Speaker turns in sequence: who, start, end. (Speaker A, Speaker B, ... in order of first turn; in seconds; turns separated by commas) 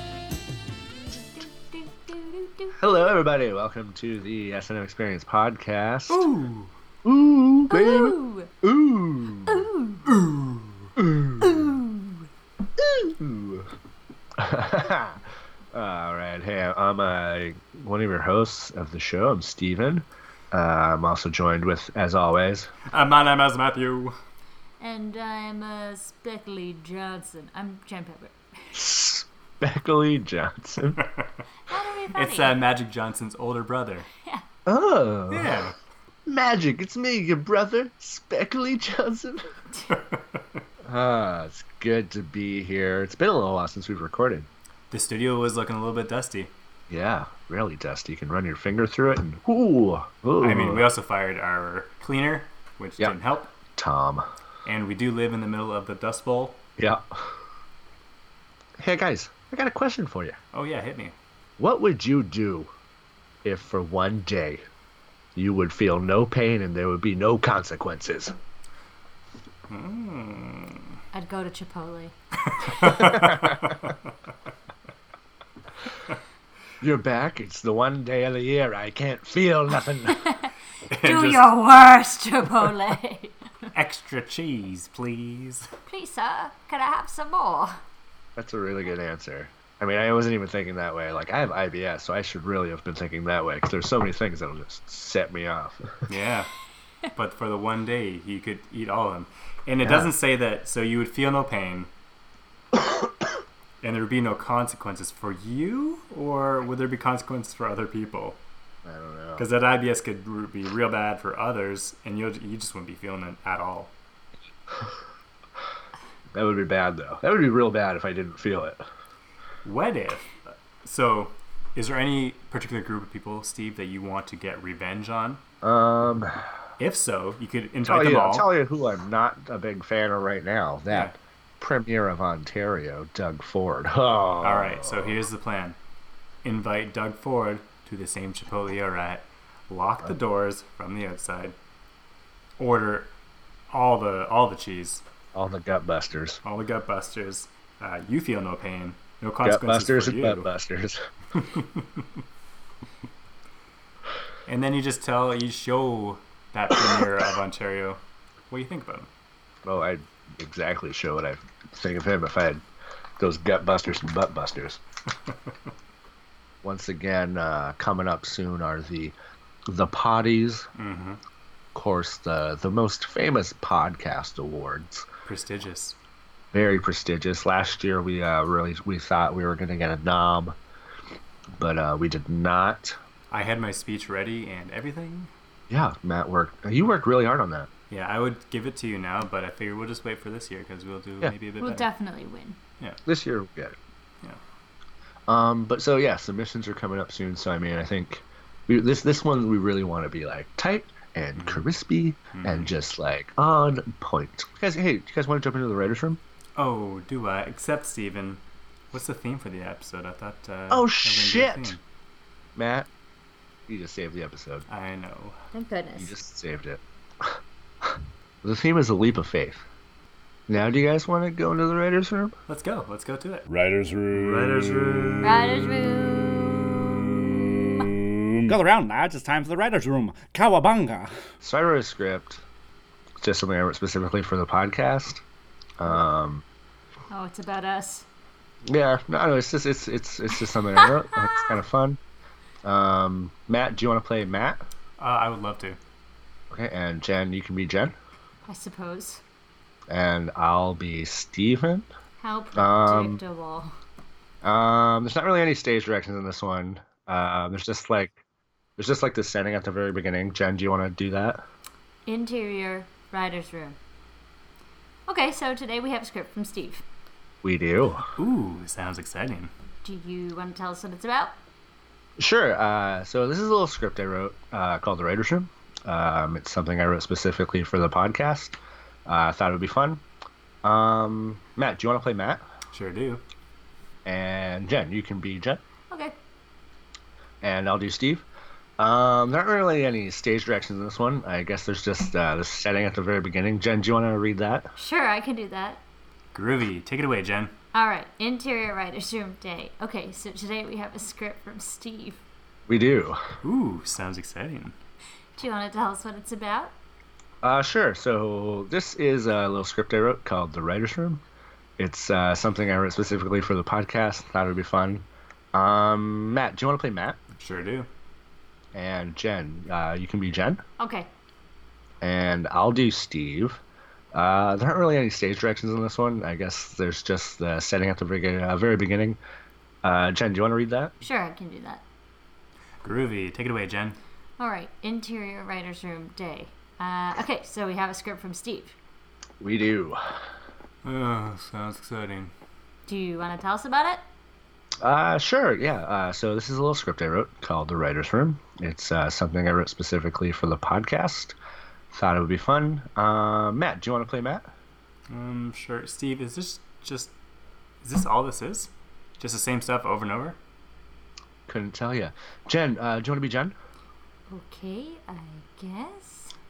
Speaker A: 1.1-2.8, Speaker B: 2.8-6.3, Speaker C: 6.1-6.7, Speaker B: 7.0-9.6, Speaker A: 7.7-8.5, Speaker A: 9.5-10.1, Speaker C: 10.1-10.9, Speaker B: 11.0-11.6, Speaker A: 11.4-12.3, Speaker B: 12.8-13.7, Speaker B: 14.4-22.7, Speaker C: 22.9-24.2, Speaker A: 24.8-28.8, Speaker B: 28.7-31.0, Speaker C: 31.0-31.3, Speaker A: 31.7-32.6, Speaker C: 32.1-34.1, Speaker B: 34.7-35.6, Speaker C: 35.3-35.7, Speaker B: 36.3-39.6, Speaker C: 39.9-40.4, Speaker B: 40.9-44.5, Speaker C: 44.9-46.5, Speaker B: 46.9-50.9, Speaker C: 50.4-53.5, Speaker B: 53.8-54.3, Speaker C: 54.6-56.6, Speaker B: 56.8-57.4, Speaker B: 58.8-60.4, Speaker C: 60.5-61.1, Speaker B: 61.6-62.7, Speaker B: 63.4-64.6, Speaker B: 65.3-68.4, Speaker C: 69.7-70.9, Speaker A: 71.1-72.1, Speaker C: 72.5-74.0, Speaker B: 72.8-73.6, Speaker B: 76.8-80.2, Speaker A: 80.1-83.4, Speaker C: 80.9-81.5, Speaker C: 83.7-85.7, Speaker A: 85.9-87.8, Speaker B: 88.4-96.1, Speaker C: 96.1-96.5, Speaker C: 97.2-101.9, Speaker B: 99.8-100.1, Speaker C: 103.8-108.4, Speaker B: 108.8-109.5, Speaker C: 109.4-113.9, Speaker B: 116.3-118.8, Speaker C: 119.6-125.4, Speaker B: 125.6-126.5, Speaker C: 126.8-128.5, Speaker B: 127.9-135.1, Speaker C: 134.4-135.8, Speaker C: 136.4-141.6, Speaker C: 142.6-143.1, Speaker C: 143.7-145.0, Speaker B: 145.3-146.4, Speaker C: 146.4-150.5, Speaker B: 149.4-151.1, Speaker C: 151.4-152.1, Speaker C: 154.5-158.0, Speaker C: 158.5-159.1, Speaker B: 159.7-162.6, Speaker B: 163.2-164.8, Speaker B: 166.6-169.2, Speaker B: 169.7-170.7, Speaker C: 170.8-171.2, Speaker B: 171.8-175.1, Speaker C: 175.3-176.0, Speaker B: 176.5-180.6, Speaker B: 181.6-183.0, Speaker C: 183.3-185.3, Speaker B: 185.7-187.7, Speaker C: 187.9-191.9, Speaker A: 191.6-192.6, Speaker B: 193.1-193.8, Speaker B: 195.3-206.2, Speaker C: 201.4-201.7, Speaker C: 202.3-202.7, Speaker C: 206.6-208.4, Speaker C: 208.9-211.8, Speaker B: 210.7-211.8, Speaker B: 212.6-212.9, Speaker B: 213.7-214.7, Speaker C: 214.7-215.4, Speaker A: 215.5-216.1, Speaker B: 216.0-219.6, Speaker B: 220.5-222.4, Speaker C: 222.5-223.5, Speaker D: 223.5-225.2, Speaker C: 224.1-225.3, Speaker A: 225.2-227.1, Speaker D: 228.5-231.1, Speaker B: 231.4-232.4, Speaker B: 233.2-235.2, Speaker B: 235.8-236.4, Speaker A: 237.1-238.1, Speaker B: 238.6-242.0, Speaker B: 242.6-244.6, Speaker C: 245.0-245.8, Speaker B: 246.5-247.9, Speaker A: 248.5-249.2, Speaker B: 249.9-251.9, Speaker A: 252.2-253.8, Speaker B: 252.6-253.2, Speaker B: 254.4-258.2, Speaker B: 258.8-261.4, Speaker A: 262.1-263.8, Speaker A: 265.1-266.8, Speaker B: 267.4-268.1, Speaker C: 268.2-269.5, Speaker A: 269.8-271.3, Speaker B: 272.2-280.0, Speaker B: 280.6-282.4, Speaker C: 282.7-283.2, Speaker B: 284.1-285.6, Speaker B: 287.4-288.2, Speaker B: 288.8-294.7, Speaker A: 294.8-295.8, Speaker C: 296.3-297.6, Speaker A: 297.7-302.2, Speaker B: 302.7-303.2, Speaker C: 303.4-304.8, Speaker A: 305.4-306.7, Speaker B: 307.4-311.2, Speaker B: 311.8-317.2, Speaker C: 317.4-317.9, Speaker B: 318.7-320.6, Speaker A: 320.8-321.1, Speaker B: 322.0-323.6, Speaker B: 324.1-329.2, Speaker B: 329.8-330.9, Speaker A: 331.0-331.8, Speaker C: 332.8-334.0, Speaker A: 334.4-338.8, Speaker B: 339.4-340.3, Speaker C: 340.8-342.3, Speaker A: 342.9-344.0, Speaker B: 344.8-351.4, Speaker B: 351.9-354.5, Speaker C: 355.1-357.1, Speaker C: 357.8-360.4, Speaker B: 361.5-363.6, Speaker A: 364.3-366.4